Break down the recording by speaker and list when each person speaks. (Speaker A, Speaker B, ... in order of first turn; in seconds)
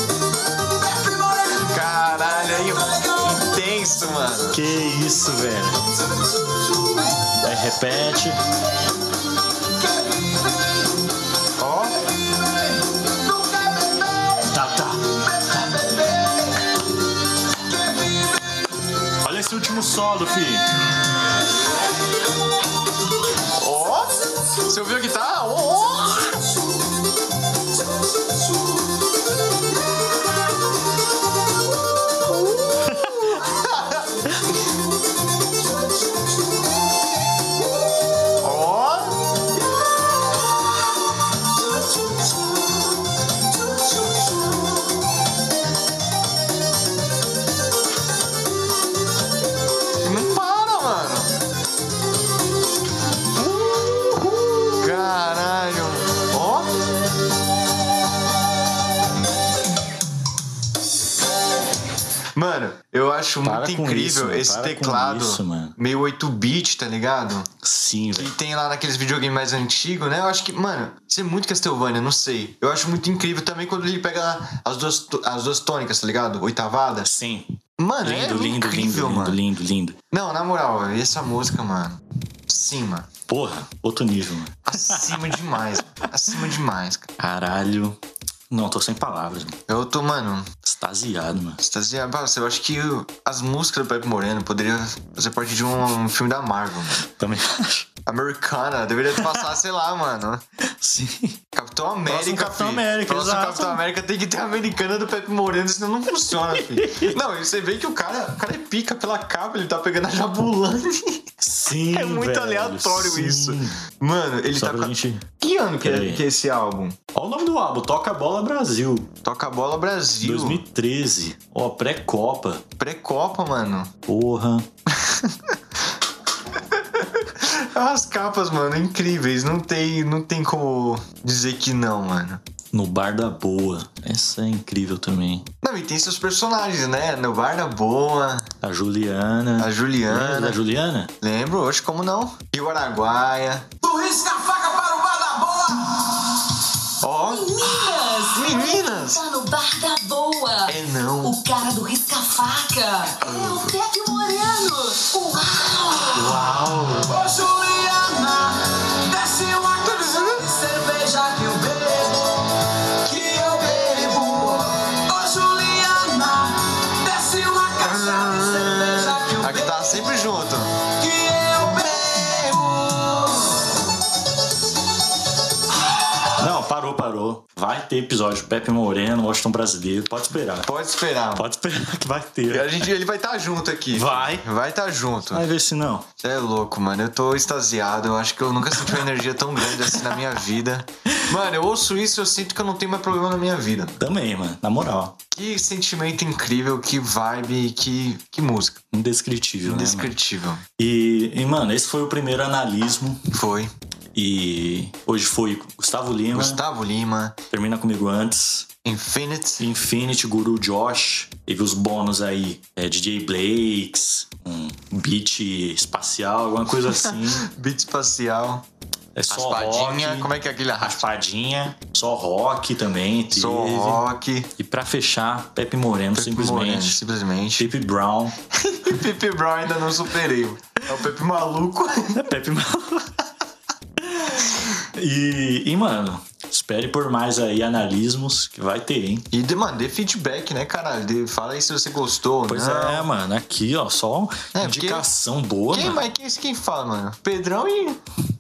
Speaker A: 0.8-3.5, 9.7-10.9, 12.2-14.5, 15.1-16.7, 17.5-18.7, 143.8-146.3, 157.1-162.5, 163.0-169.9, 171.0-173.5
Speaker B: 1.6-4.6, 11.6-12.0, 23.6-26.2, 32.3-34.0, 38.4-39.2, 50.0-51.3, 53.4-56.7, 62.4-67.5, 68.2-77.1, 77.8-79.4, 80.1-83.1, 84.7-87.1, 89.7-90.5, 91.6-97.0, 98.0-100.4, 101.5-111.2, 111.9-117.0, 119.2-120.6, 122.8-123.9, 125.0-125.3, 127.4-132.4, 135.6-138.5, 139.6-140.6, 141.2-143.7, 147.0-149.2, 150.7-151.4, 153.2-153.7, 156.1-157.1, 160.2-160.4, 167.8-170.7, 171.9-172.8, 180.6-181.4, 182.5-185.5, 186.2-194.0, 195.3-198.8, 199.6-200.6, 203.3-203.7, 206.3-207.3, 208.8-209.7, 216.9-218.6, 219.3-221.0, 223.3-224.5, 226.1-227.7, 228.6-232.2, 239.3-243.1, 244.5-245.1, 245.7-248.0
Speaker C: 4.5-5.8, 7.4-8.4, 14.5-15.2, 19.2-20.6, 32.9-33.1, 63.4-65.7, 67.6-68.3, 77.0-80.0, 83.3-85.4, 87.2-88.0, 88.5-89.6, 90.6-91.6, 97.0-97.9, 100.8-101.4, 102.0-103.8, 106.8-107.2, 111.4-113.8, 114.5-115.2, 115.8-116.2, 117.1-119.1, 120.2-122.6, 124.1-124.7, 132.7-135.4, 138.6-141.1, 176.4-180.7, 181.3-182.8, 183.9-184.4, 185.3-186.0, 194.0-195.1, 198.9-200.1, 200.8-203.2, 204.1-206.6, 207.5-208.7, 209.6-217.4, 219.1-220.3, 220.8-224.0, 224.6-227.0, 227.6-228.3, 232.2-233.2, 234.0-239.2, 242.5-246.0
Speaker D: 147.3-156.3